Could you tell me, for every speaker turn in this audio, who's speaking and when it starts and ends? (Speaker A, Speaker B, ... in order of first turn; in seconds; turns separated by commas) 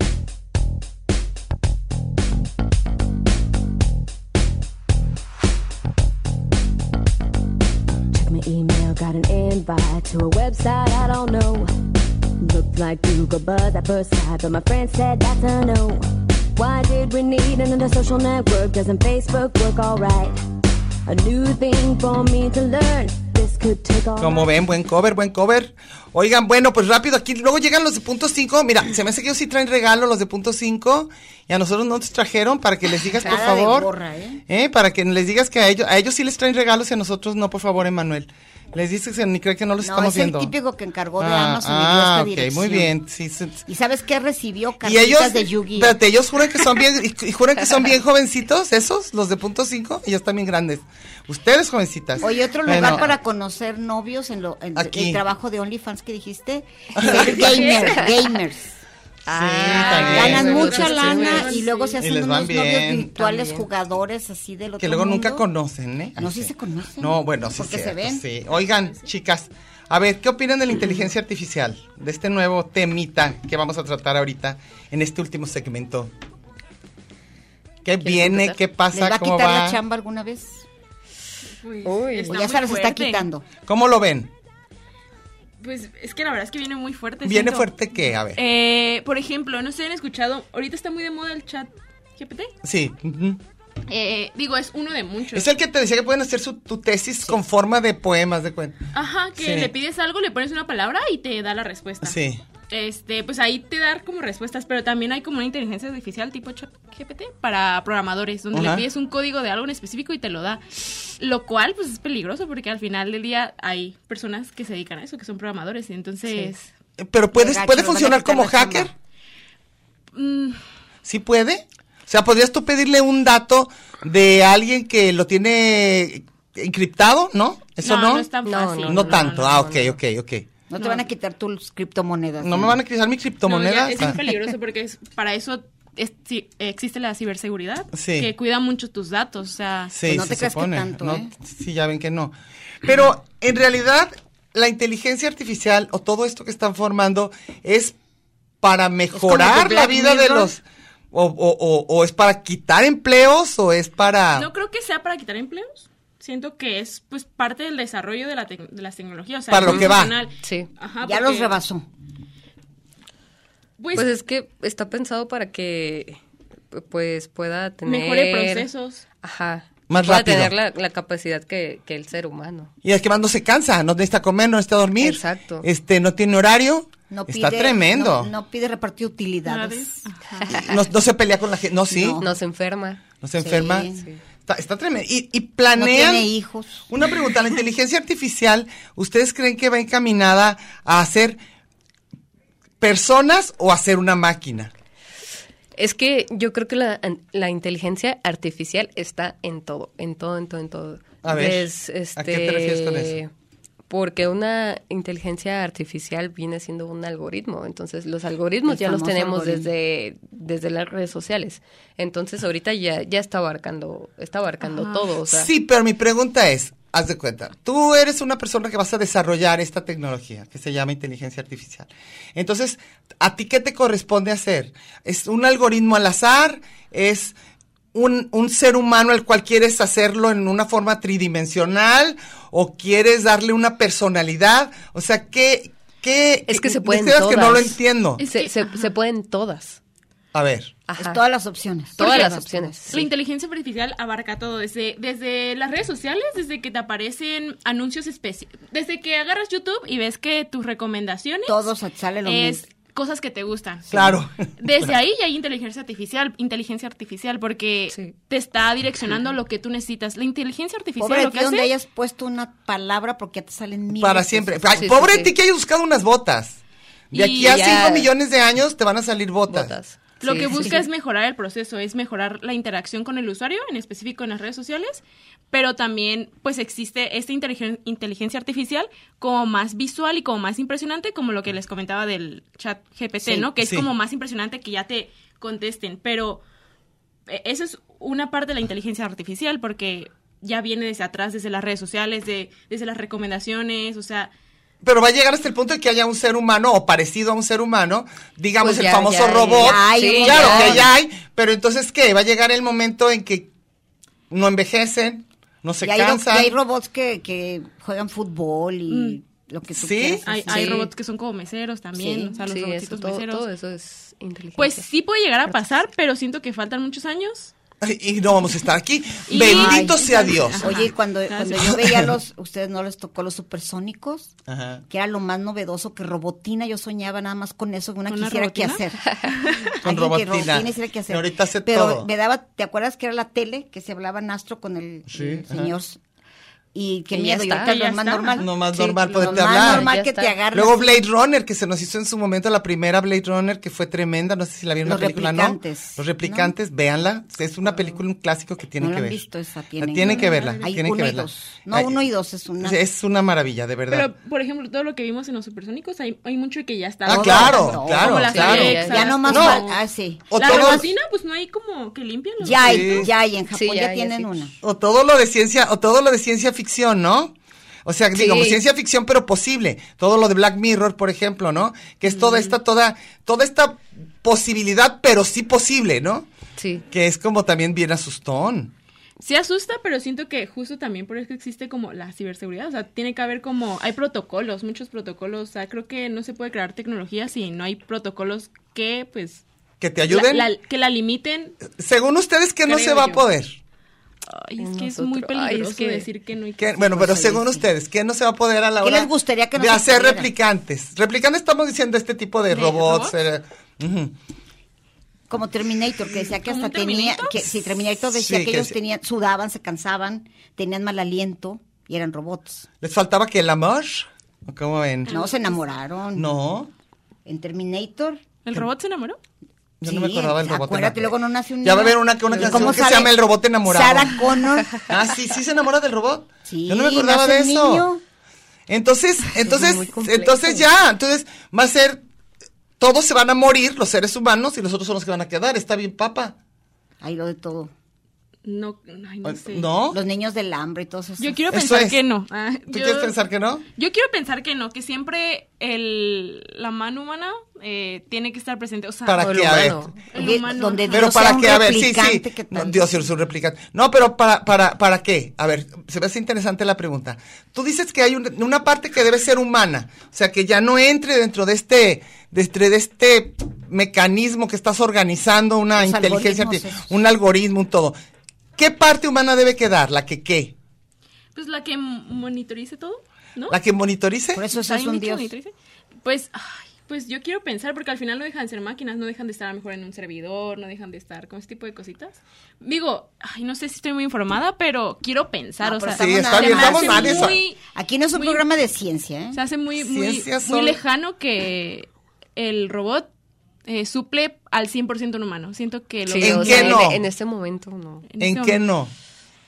Speaker A: 8.1-11.7, Speaker A: 12.4-20.4, Speaker A: 21.1-24.5, Speaker B: 24.2-33.9, Speaker C: 33.2-34.4, Speaker B: 34.5-40.5, Speaker C: 39.8-42.9, Speaker B: 41.2-43.6, Speaker C: 43.7-46.0, Speaker B: 44.8-53.1, Speaker C: 52.2-58.8, Speaker B: 54.8-55.2, Speaker B: 57.0-57.7, Speaker D: 57.2-58.2, Speaker E: 57.4-58.0, Speaker E: 59.3-61.6, Speaker B: 59.3-61.2, Speaker D: 59.7-62.0, Speaker C: 59.8-65.5, Speaker B: 62.0-63.2, Speaker E: 63.2-63.7, Speaker B: 64.8-76.1, Speaker C: 66.2-68.2, Speaker B: 77.8-79.8, Speaker E: 78.0-78.6, Speaker C: 78.9-80.7, Speaker D: 81.6-83.2, Speaker E: 81.8-82.4, Speaker C: 82.3-83.5, Speaker B: 83.7-84.3, Speaker D: 85.6-92.5, Speaker B: 87.2-88.4, Speaker B: 92.6-93.4, Speaker D: 93.9-95.5, Speaker B: 95.3-98.8, Speaker D: 98.9-102.2, Speaker B: 99.4-99.7, Speaker B: 102.0-102.4, Speaker D: 102.7-110.6, Speaker B: 108.5-108.8, Speaker D: 111.2-116.7, Speaker B: 117.0-118.9, Speaker C: 117.3-118.9, Speaker D: 120.2-120.6, Speaker B: 121.0-128.3, Speaker D: 127.8-129.5, Speaker E: 128.4-130.0, Speaker B: 128.8-130.5, Speaker C: 130.7-132.8, Speaker D: 130.8-131.1, Speaker B: 132.4-134.2, Speaker D: 133.5-140.0, Speaker B: 137.9-138.3, Speaker B: 139.9-147.9, Speaker C: 140.1-141.3, Speaker B: 148.6-154.5, Speaker C: 149.1-150.5, Speaker D: 154.3-161.6, Speaker B: 159.5-160.2, Speaker E: 159.6-160.7, Speaker C: 161.0-161.9, Speaker D: 163.8-164.1, Speaker E: 163.9-166.2, Speaker E: 166.7-168.7, Speaker D: 167.9-169.0, Speaker E: 169.2-172.7, Speaker B: 169.9-170.5, Speaker B: 172.8-178.3, Speaker E: 175.0-175.7, Speaker C: 177.1-180.0, Speaker D: 179.5-180.6, Speaker B: 180.6-182.2, Speaker C: 181.9-182.3, Speaker E: 182.2-183.0, Speaker B: 183.2-183.9, Speaker C: 183.4-184.1, Speaker B: 184.5-186.3, Speaker C: 185.8-186.9, Speaker B: 186.9-191.4, Speaker B: 192.8-194.7, Speaker E: 195.8-203.3, Speaker B: 201.2-203.2, Speaker E: 203.9-215.5, Speaker C: 208.7-209.7, Speaker D: 214.6-215.1, Speaker B: 215.2-227.3, Speaker B: 227.9-238.2, Speaker E: 236.5-239.8, Speaker D: 238.2-238.9, Speaker B: 240.3-240.7, Speaker E: 240.9-241.2, Speaker C: 241.0-242.8, Speaker E: 242.0-243.1, Speaker D: 242.0-242.3, Speaker D: 242.9-251.6, Speaker C: 251.5-252.6, Speaker D: 252.2-261.7, Speaker B: 253.9-254.5, Speaker C: 261.0-264.9, Speaker B: 263.9-266.6, Speaker E: 264.8-265.3, Speaker B: 267.1-269.8, Speaker D: 267.1-267.7, Speaker E: 267.4-268.1, Speaker E: 269.5-270.7, Speaker D: 270.2-286.4, Speaker C: 270.5-270.8, Speaker B: 283.6-283.9, Speaker D: 287.3-294.3, Speaker B: 294.8-303.5, Speaker E: 298.6-300.9, Speaker C: 299.6-300.9, Speaker B: 304.3-306.6, Speaker C: 305.8-310.9, Speaker D: 308.9-309.2, Speaker B: 309.8-310.2, Speaker D: 310.2-313.5, Speaker C: 312.0-312.4, Speaker E: 312.5-314.9, Speaker D: 314.6-317.5, Speaker B: 317.8-320.8, Speaker D: 319.3-321.9, Speaker C: 319.3-324.3, Speaker B: 321.6-322.1, Speaker B: 324.5-324.8, Speaker C: 324.9-329.2, Speaker D: 328.1-329.8, Speaker C: 329.8-336.0, Speaker B: 329.8-332.1, Speaker B: 335.1-335.7, Speaker C: 336.7-341.1, Speaker E: 337.1-337.8, Speaker D: 337.6-338.5, Speaker B: 338.4-339.9, Speaker E: 339.4-340.3, Speaker B: 340.5-349.2, Speaker C: 344.9-346.5, Speaker C: 348.8-352.8, Speaker B: 349.8-352.1, Speaker D: 350.0-350.7, Speaker B: 352.6-354.1, Speaker D: 353.9-359.8, Speaker B: 357.1-359.6, Speaker C: 357.1-360.9, Speaker E: 358.2-359.3, Speaker B: 360.3-360.9, Speaker D: 360.3-363.1, Speaker C: 362.4-364.6, Speaker B: 362.6-363.1, Speaker E: 363.5-364.3, Speaker B: 364.6-367.3, Speaker B: 367.9-376.3, Speaker E: 368.1-368.6, Speaker D: 372.1-372.6, Speaker E: 376.6-376.9, Speaker B: 376.9-378.7, Speaker D: 379.2-389.4, Speaker B: 389.8-390.5, Speaker D: 390.1-391.6, Speaker B: 391.7-393.6, Speaker D: 392.7-393.2, Speaker D: 394.3-397.2, Speaker E: 394.6-396.1, Speaker B: 396.6-404.1, Speaker C: 396.9-397.7, Speaker C: 398.8-400.3, Speaker D: 402.5-403.1, Speaker C: 405.3-412.7, Speaker D: 406.3-407.4, Speaker B: 408.1-408.8, Speaker B: 412.8-415.2, Speaker D: 415.1-415.5, Speaker C: 415.1-416.3, Speaker B: 416.1-416.7, Speaker C: 417.3-418.2, Speaker D: 418.5-419.2, Speaker B: 419.8-424.1, Speaker C: 419.8-424.9, Speaker E: 422.3-422.8, Speaker B: 424.8-427.9, Speaker C: 426.5-428.0, Speaker B: 428.7-432.0, Speaker E: 429.4-430.7, Speaker B: 432.8-436.4, Speaker C: 437.0-437.7, Speaker D: 438.4-439.7, Speaker B: 439.2-440.0, Speaker C: 439.9-441.4, Speaker D: 441.2-443.2, Speaker B: 441.5-442.0, Speaker B: 442.7-443.6, Speaker D: 443.8-449.5, Speaker B: 449.1-449.9, Speaker E: 449.2-450.2, Speaker D: 450.1-451.3, Speaker C: 450.2-453.0, Speaker B: 450.9-467.9, Speaker C: 465.8-466.9, Speaker B: 468.6-470.6, Speaker D: 471.4-473.6, Speaker B: 473.5-474.4, Speaker C: 474.4-475.3, Speaker D: 474.5-475.5, Speaker D: 476.0-487.6, Speaker C: 485.6-489.4, Speaker B: 485.9-487.4, Speaker D: 488.1-488.4, Speaker D: 489.3-493.1, Speaker B: 489.8-490.8, Speaker D: 493.7-496.9, Speaker E: 496.1-498.1, Speaker B: 496.2-497.0, Speaker D: 498.1-498.6, Speaker B: 498.2-498.9